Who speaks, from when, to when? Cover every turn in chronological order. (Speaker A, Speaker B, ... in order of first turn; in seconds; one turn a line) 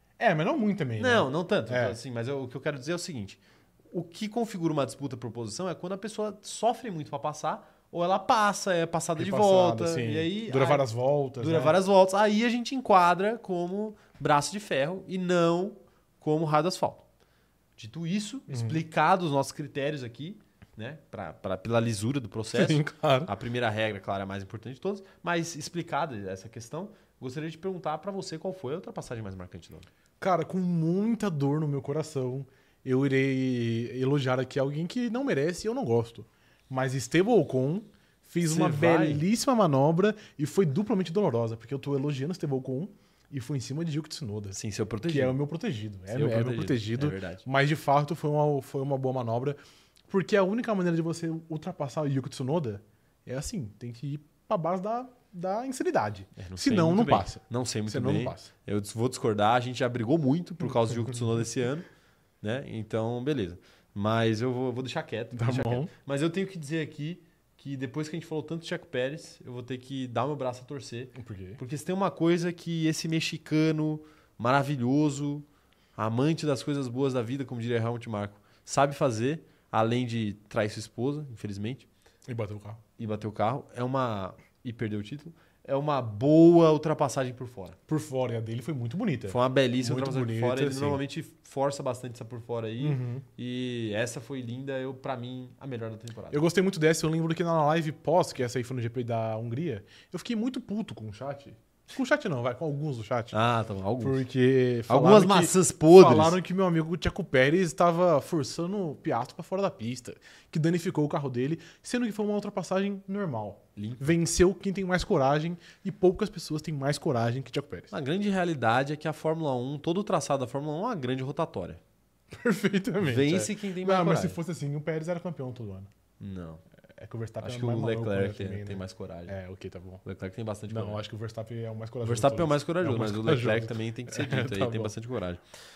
Speaker A: 0.2-2.0
Speaker B: 1.0-3.4
Speaker B: 3.9-17.0
Speaker A: 9.2-11.8
Speaker B: 17.8-29.9
Speaker A: 18.5-18.8
Speaker A: 22.5-23.3
Speaker A: 30.2-58.5
Speaker B: 38.4-39.2
Speaker B: 44.5-45.4
Speaker B: 46.1-47.5
Speaker B: 56.4-61.9
Speaker B: 62.4-81.9
Speaker A: 65.3-65.9
Speaker A: 71.1-71.6
Speaker A: 82.3-82.8
Speaker B: 83.0-87.8
Speaker A: 87.9-91.0
Speaker B: 89.3-96.4
Speaker A: 92.8-93.2
Speaker A: 96.3-103.3
Speaker B: 103.3-104.2
Speaker A: 104.0-117.9
Speaker B: 104.9-106.4
Speaker B: 113.8-114.1
Speaker B: 117.9-121.8
Speaker A: 122.3-125.9
Speaker B: 123.0-124.4
Speaker B: 126.2-126.6
Speaker A: 127.0-130.0
Speaker B: 127.4-129.3
Speaker B: 130.0-131.0
Speaker A: 130.7-134.9
Speaker B: 132.0-135.4